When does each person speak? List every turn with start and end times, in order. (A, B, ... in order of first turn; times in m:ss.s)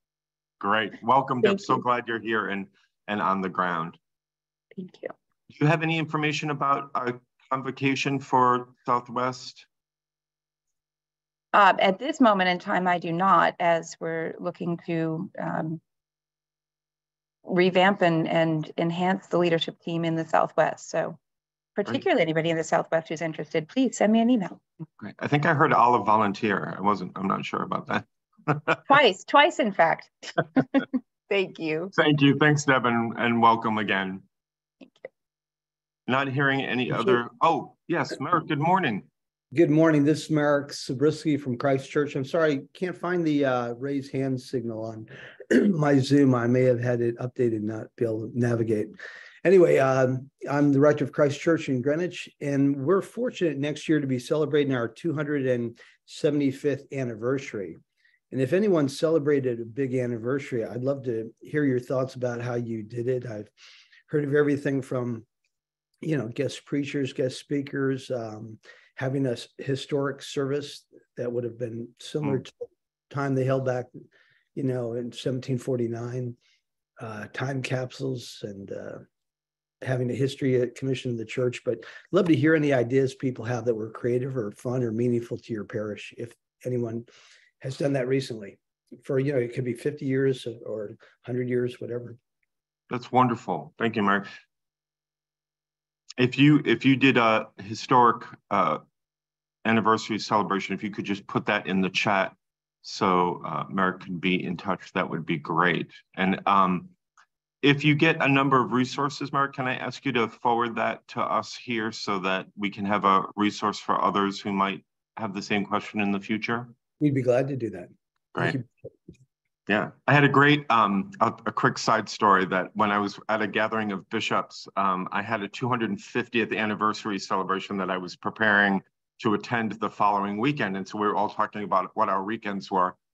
0:00.6-0:04.0 A
0:04.8-0:05.1 B
0:05.5-0:09.7 A
0:11.5-0:15.8 B
0:17.4-0:21.2 B
0:21.8-0:24.6 B
0:25.0-0:28.8 A
0:28.9-0:31.9 B
0:31.9-0:34.2 A
0:36.1-0:39.0 A
0:39.5-0:57.8 C
0:58.3-1:03.5 C
1:04.1-1:05.2 C
1:06.0-1:16.4 C
1:17.0-1:19.0 C
1:19.8-1:27.1 C
1:27.6-1:32.2 C
1:32.9-1:34.3 A
1:36.2-1:38.8 A
1:39.6-1:46.9 A
1:47.6-1:56.7 A
1:57.0-1:58.6 C
1:59.7-2:13.0 A